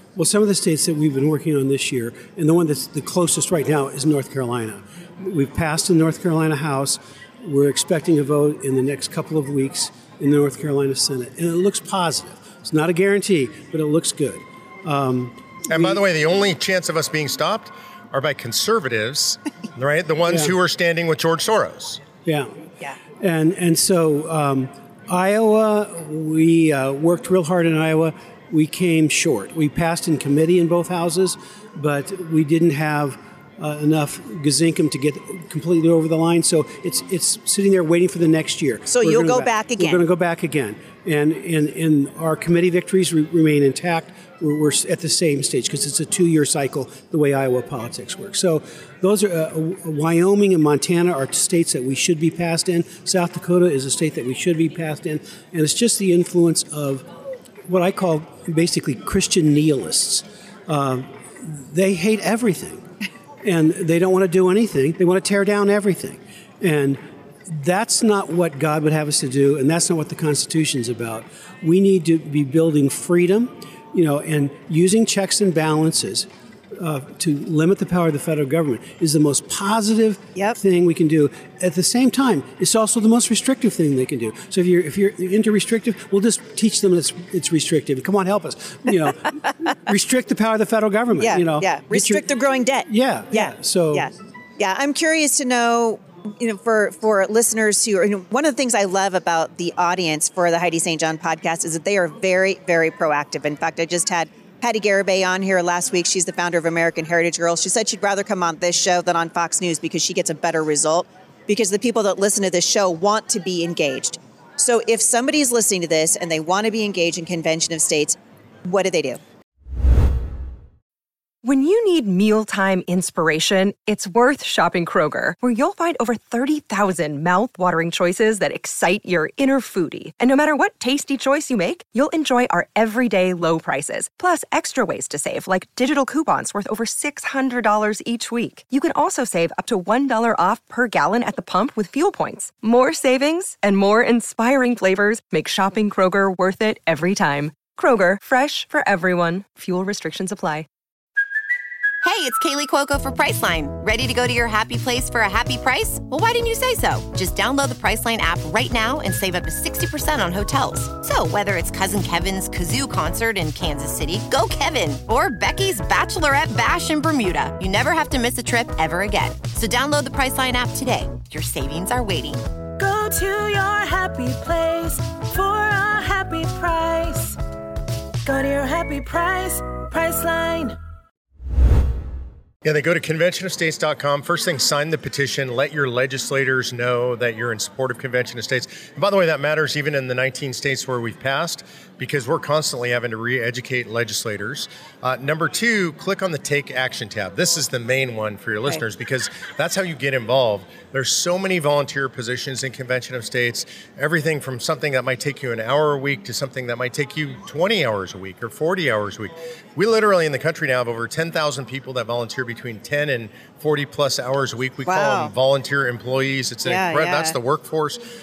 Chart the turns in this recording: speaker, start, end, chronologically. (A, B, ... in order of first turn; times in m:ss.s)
0:00.2-0:16.0 A
0:15.7-0:22.0 B
0:20.2-0:20.6 A
0:23.2-0:57.0 A
0:38.9-0:40.0 C
0:57.6-1:02.8 A
1:03.4-1:32.3 A
1:31.2-1:59.2 C
1:32.9-1:34.1 A
2:01.4-2:30.7 D
2:32.0-2:52.4 E
2:52.8-2:57.4 F
2:53.3-2:54.0 D
2:56.4-2:56.8 D
2:58.2-3:00.7 F
2:58.9-2:59.2 D
3:00.1-3:00.7 D
3:02.6-3:38.0 B
3:34.8-3:35.3 C
3:36.6-3:37.4 C